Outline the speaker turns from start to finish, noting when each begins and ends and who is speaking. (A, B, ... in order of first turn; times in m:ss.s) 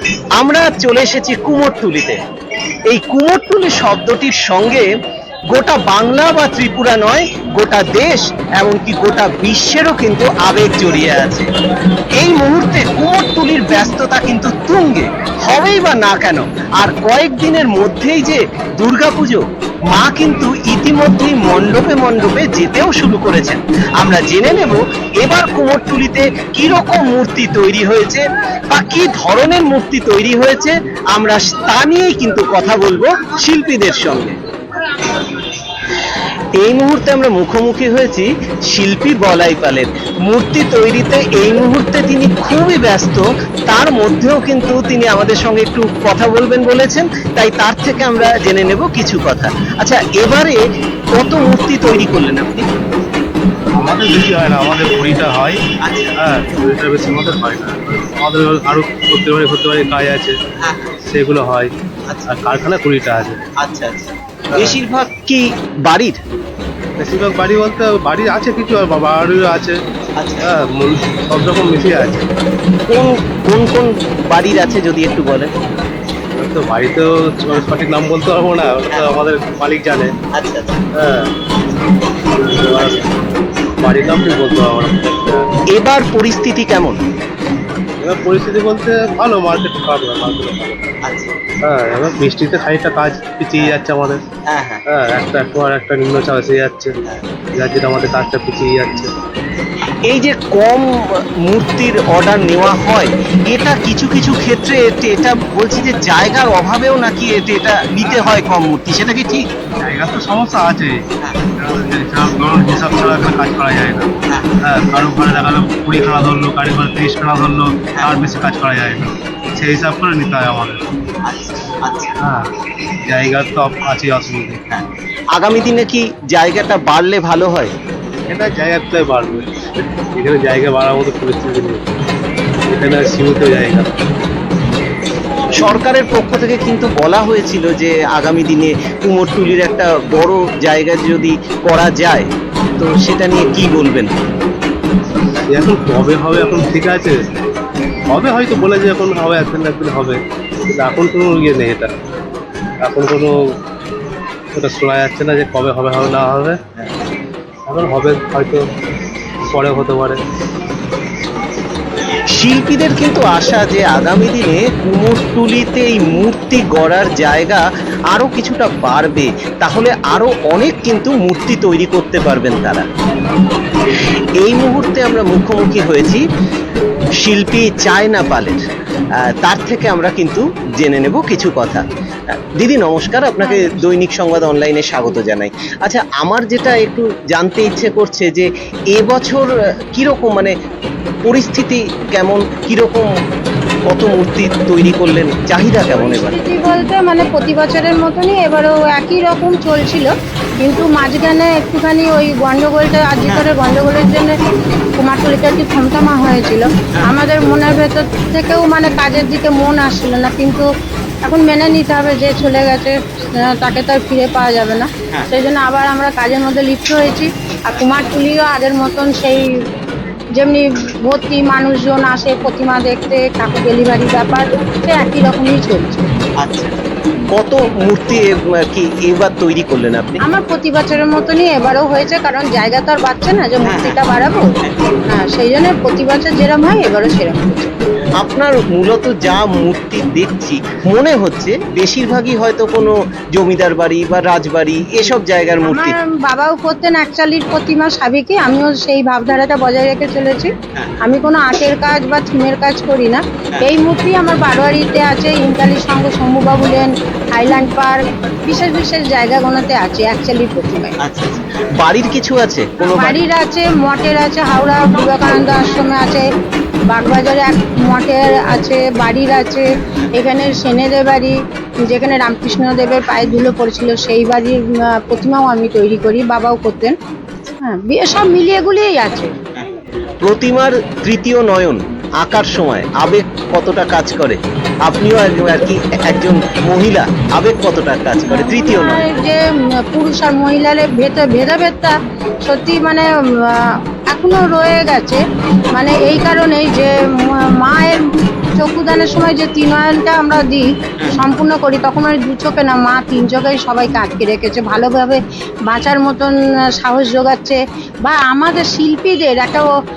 0:00.4-0:02.2 A
0:02.9-0:04.9 A
0:05.5-0:11.5 A
0:12.2-0:34.4 A
0:36.6-0:50.6 A
0:51.2-0:52.6 A
0:53.8-0:55.6 B
0:55.8-0:56.2 A
0:56.2-1:00.4 B
1:00.6-1:01.0 A
1:01.1-1:01.7 B
1:02.3-1:03.4 B
1:03.6-1:06.2 A
1:07.0-1:09.8 B
1:10.2-1:10.5 A
1:10.4-1:12.3 B
1:12.9-1:15.5 A
1:16.4-1:20.1 B
1:20.3-1:20.8 A
1:21.0-1:21.3 B
1:22.4-1:23.1 B
1:23.8-1:25.5 B
1:25.7-1:27.0 A
1:28.0-1:31.0 B
1:31.0-1:31.4 A
1:31.7-1:34.2 B
1:33.6-1:33.8 A
1:34.5-1:34.8 A
1:34.9-1:36.9 B
1:37.6-1:39.1 B
1:40.1-1:40.9 A
1:41.4-1:49.4 A
1:49.8-1:51.0 B
1:51.6-1:54.1 B
1:54.3-1:54.6 A
1:54.6-2:00.8 B
2:01.2-2:02.2 A
2:02.2-2:02.5 B
2:03.1-2:04.6 B
2:04.7-2:07.7 A
2:08.3-2:11.8 B
2:12.7-2:13.8 B
2:15.6-2:24.1 A
2:25.5-2:27.2 B
2:28.1-2:30.2 B
2:30.7-2:31.9 B
2:32.8-2:33.4 B
2:34.6-2:36.6 B
2:37.7-2:38.6 B
2:39.5-2:40.2 B
2:42.3-2:52.9 A
2:54.4-2:56.2 A
2:57.2-2:58.6 A
2:59.2-3:01.8 A
3:02.6-3:10.5 A
3:03.4-3:03.8 C
3:11.2-3:13.0 A
3:13.9-3:16.4 A
3:15.9-3:24.4 C
3:23.3-3:23.5 A
3:25.0-3:30.7 C
3:31.2-3:39.4 C
3:40.4-3:46.1 C
3:46.4-3:46.8 A
3:47.3-3:50.2 A
3:50.3-3:54.5 C
3:53.6-3:54.0 A
3:54.6-3:55.0 A
3:55.1-3:57.7 C
3:58.2-4:06.0 A
4:05.6-4:21.0 C
4:21.0-4:23.2 A
4:22.8-4:26.2 C
4:26.9-4:31.3 C
4:31.9-4:37.0 C
4:37.6-4:39.4 C
4:40.2-4:49.1 A
4:48.3-4:49.4 C
4:49.9-4:58.0 C
4:58.6-5:09.7 C